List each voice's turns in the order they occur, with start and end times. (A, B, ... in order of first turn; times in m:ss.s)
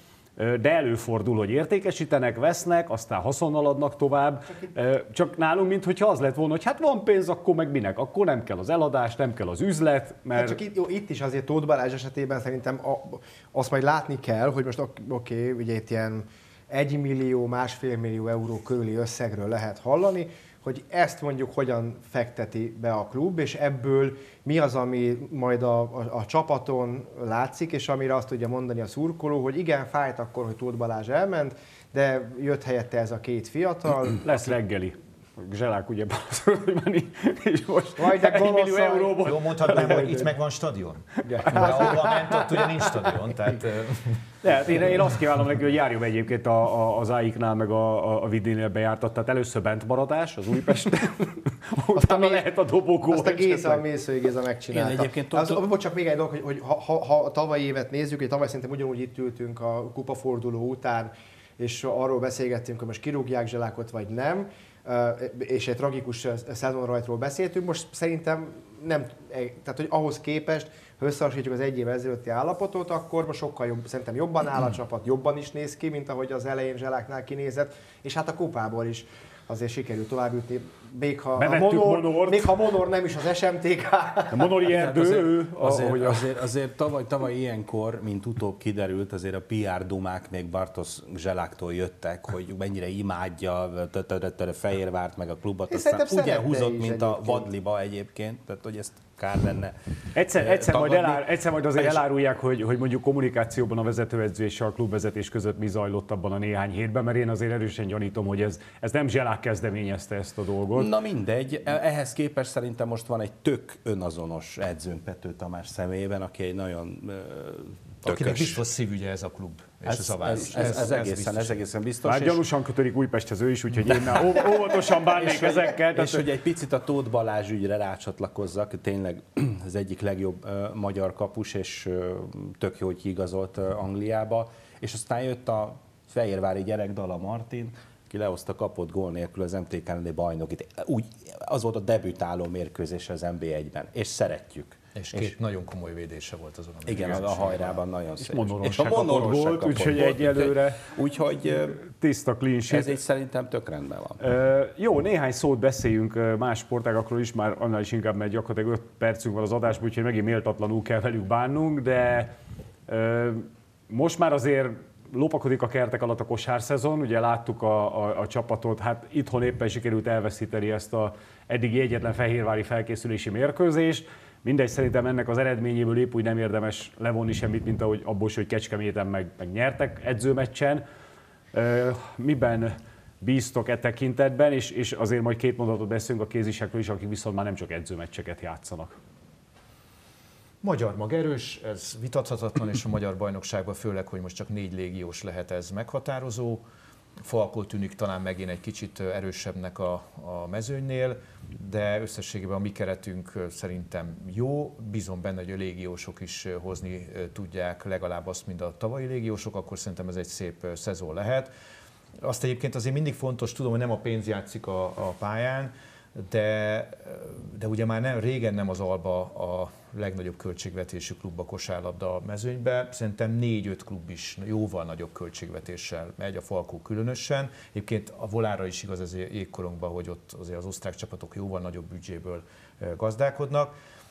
0:00.4-0:10.6 A
0:10.4-0:34.2 B
0:34.2-0:40.2 A
0:38.0-0:40.3 B
0:39.2-0:44.2 C
0:41.3-0:42.5 A
0:41.3-0:42.0 B
0:44.4-0:53.8 A
0:51.9-0:52.5 B
0:53.1-1:24.5 B
0:54.7-0:55.6 D
1:21.4-1:22.6 A
1:24.3-1:26.3 A
1:24.7-1:39.7 D
1:35.7-1:37.5 B
1:40.1-1:50.9 A
1:40.4-1:42.0 D
1:50.7-1:58.6 D
1:58.0-2:01.6 C
1:59.9-2:02.4 D
2:02.0-2:06.2 A
2:05.1-2:25.3 D
2:25.0-2:27.8 C
2:26.9-2:31.8 D
2:28.2-2:30.8 A
2:31.8-2:32.9 A
2:32.7-2:34.2 D
2:34.2-2:42.3 A
2:42.9-3:00.8 A
3:01.5-3:09.0 A
3:10.6-3:16.6 C
3:17.2-3:31.5 C
3:32.2-3:53.7 C